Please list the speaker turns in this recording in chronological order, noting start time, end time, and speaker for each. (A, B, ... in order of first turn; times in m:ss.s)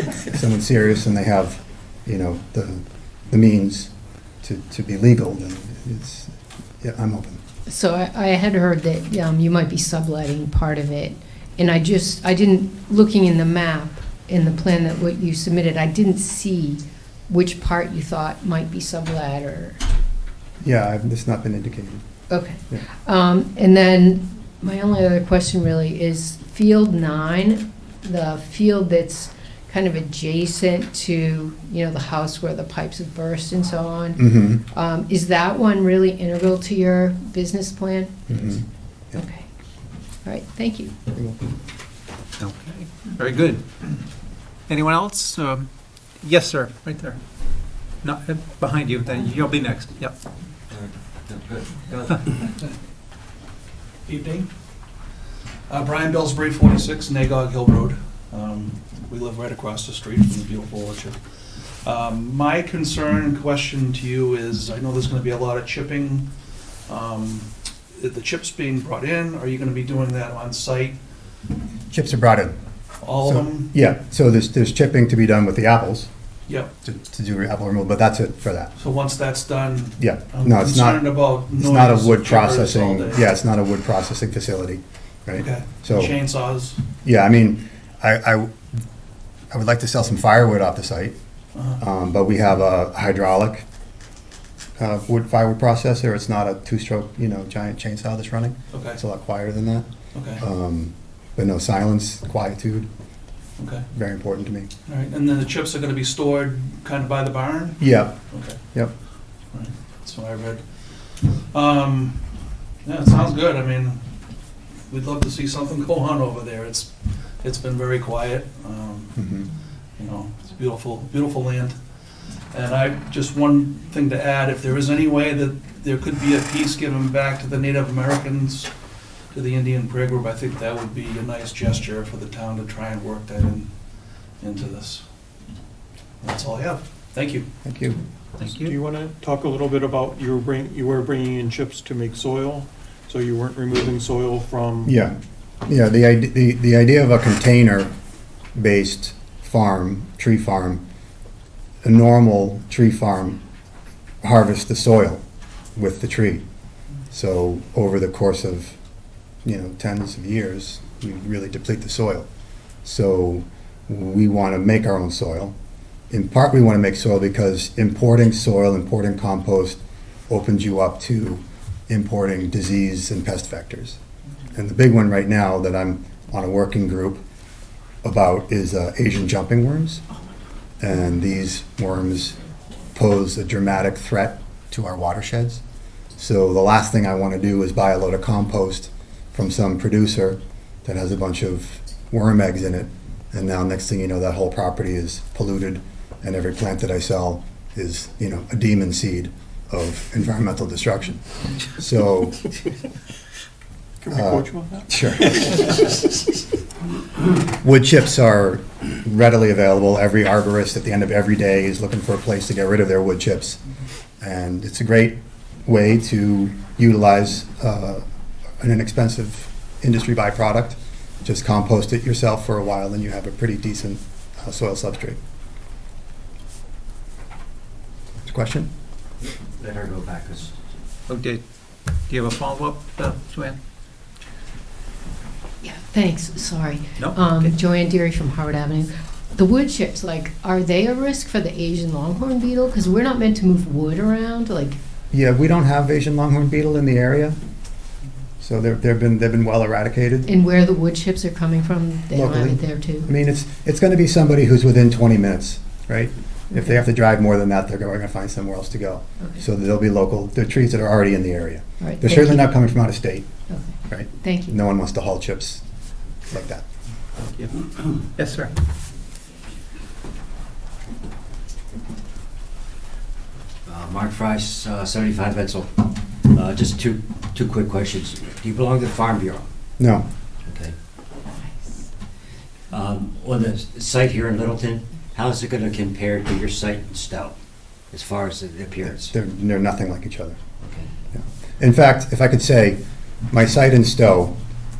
0:00.2-0:03.9 A
0:04.4-0:07.4 A
0:07.7-0:19.8 B
0:20.6-0:22.0 A
0:22.3-0:38.2 B
0:34.2-0:34.6 A
0:38.3-0:39.2 A
0:39.1-0:39.5 B
0:40.2-0:41.0 B
0:41.1-0:41.4 A
0:42.4-0:43.6 C
0:44.7-0:45.7 C
0:46.2-0:47.2 C
0:48.0-0:50.1 C
0:50.7-0:52.0 D
0:51.9-0:52.2 C
0:54.0-0:54.5 E
0:55.7-1:06.3 E
1:06.9-1:11.0 E
1:11.9-1:12.6 A
1:13.0-1:13.7 E
1:13.2-1:16.1 A
1:16.8-1:18.7 A
1:18.8-1:23.2 E
1:20.0-1:26.1 A
1:25.4-1:26.8 E
1:27.0-1:28.6 A
1:29.5-1:31.1 A
1:31.5-1:31.8 E
1:31.8-1:33.6 A
1:34.8-1:39.9 A
1:38.7-1:39.0 E
1:40.1-1:40.4 E
1:40.4-1:42.9 A
1:43.6-1:43.8 E
1:43.9-1:44.7 A
1:44.8-1:48.6 E
1:47.8-1:48.2 A
1:49.5-1:52.2 E
1:52.8-1:54.0 E
1:54.9-1:59.2 E
1:59.2-1:59.5 A
2:00.0-2:01.8 E
2:02.5-2:08.7 E
2:09.3-2:13.7 E
2:14.4-2:15.0 E
2:16.2-2:17.5 E
2:17.6-2:18.0 A
2:18.4-2:18.7 C
2:18.4-2:24.9 F
2:24.8-2:27.9 A
2:28.5-2:30.8 A
2:31.8-2:33.4 A
2:34.2-2:35.2 A
2:35.8-2:36.4 A
2:37.1-2:38.8 A
2:39.4-2:42.3 A
2:42.8-2:45.5 A
2:46.1-2:54.0 A
2:54.5-2:57.2 A
2:58.0-3:00.0 A
3:00.8-3:02.3 A
3:02.9-3:05.6 A
3:06.2-3:22.4 A
3:24.0-3:26.0 F
3:24.1-3:25.6 A
3:27.5-3:33.6 A
3:34.2-3:38.0 A
3:38.6-3:45.2 A
3:48.2-3:48.7 A
3:49.6-3:50.5 D
3:51.1-3:51.4 C
3:52.1-3:53.6 C
3:55.6-4:04.8 B
3:57.0-3:57.5 C
4:05.1-4:07.4 A
4:08.4-4:10.3 A
4:10.3-4:13.1 B
4:12.1-4:23.3 A
4:21.8-4:22.6 B
4:23.5-4:24.5 B
4:23.8-4:25.6 A
4:26.3-4:26.6 A
4:28.2-4:28.5 C
4:33.6-4:35.7 D
4:36.3-4:39.4 D
4:39.8-4:40.0 A
4:42.7-4:47.3 D
4:47.9-4:49.1 D
4:48.8-4:50.4 A
4:51.1-4:54.4 A